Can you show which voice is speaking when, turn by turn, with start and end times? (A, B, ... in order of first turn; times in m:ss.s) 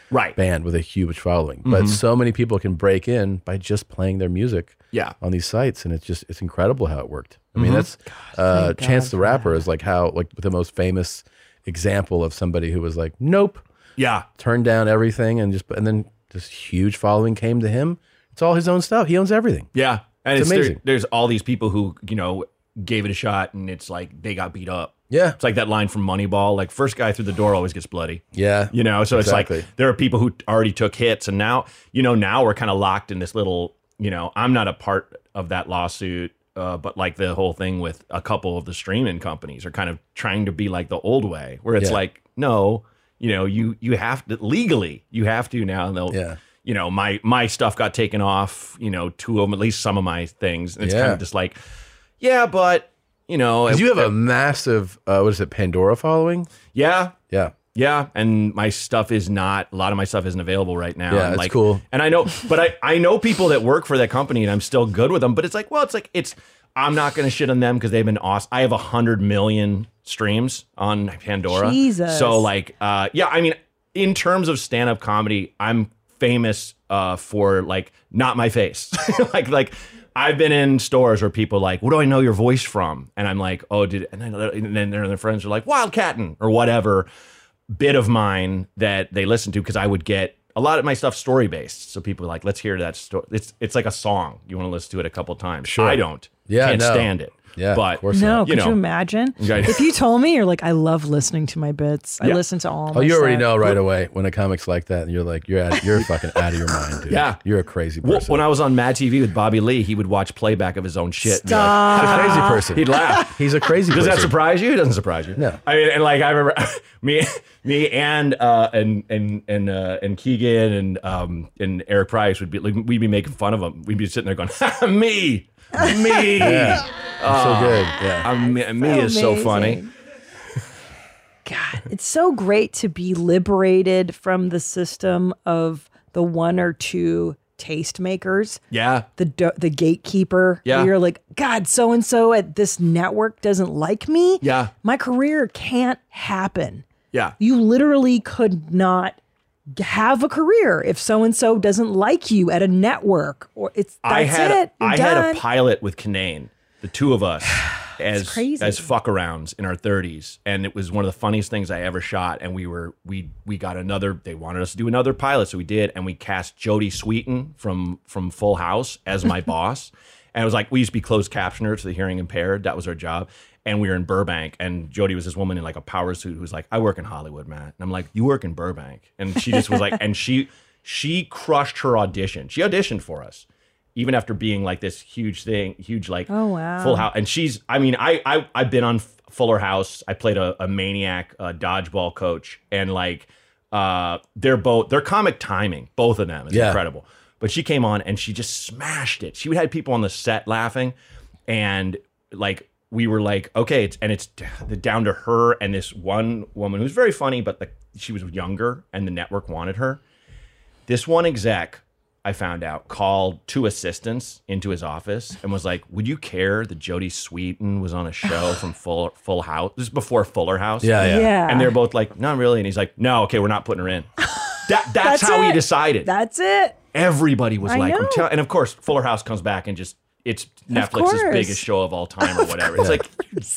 0:00.1-0:00.4 A
0:00.4-0:13.6 B
0:01.6-0:02.0 A
0:07.6-0:07.9 A
0:08.1-0:09.7 C
0:14.0-0:14.3 A
0:14.4-0:19.7 B
0:19.7-0:51.6 A
0:20.4-0:20.8 B
0:25.1-0:25.4 B
0:28.3-0:29.7 B
0:46.1-0:46.4 B
0:50.8-0:51.2 B
0:52.2-0:54.1 A
0:53.7-0:56.6 B
0:56.7-0:57.2 A
0:57.3-0:57.6 B
0:57.7-1:27.1 A
1:01.1-1:01.8 B
1:11.5-1:12.5 C
1:27.7-1:38.8 A
1:35.6-1:38.5 B
1:38.1-1:43.8 C
1:39.4-1:39.9 A
1:42.9-1:48.5 B
1:47.1-1:47.4 A
1:48.0-2:09.8 A
1:51.2-1:53.2 C
1:51.4-1:54.4 B
2:05.7-2:06.3 C
2:06.4-2:08.3 B
2:08.4-2:09.9 C
2:11.5-2:18.6 C
2:18.7-2:19.1 A
2:19.2-2:26.9 C
2:20.6-2:20.9 A
2:24.4-2:24.7 A
2:27.4-2:29.2 C
2:29.8-2:35.4 C
2:34.0-3:21.0 A
2:38.1-2:38.9 C
3:06.3-3:07.1 C
3:16.5-3:16.8 B
3:21.5-3:30.0 A
3:30.9-3:44.1 A
3:40.8-3:41.4 B
3:41.0-3:41.8 C
3:44.2-3:46.8 C
3:44.7-3:46.1 A
3:46.9-3:53.3 A
3:47.6-3:48.3 C
3:50.7-3:51.6 C
3:52.3-3:52.7 C
3:52.8-3:53.0 B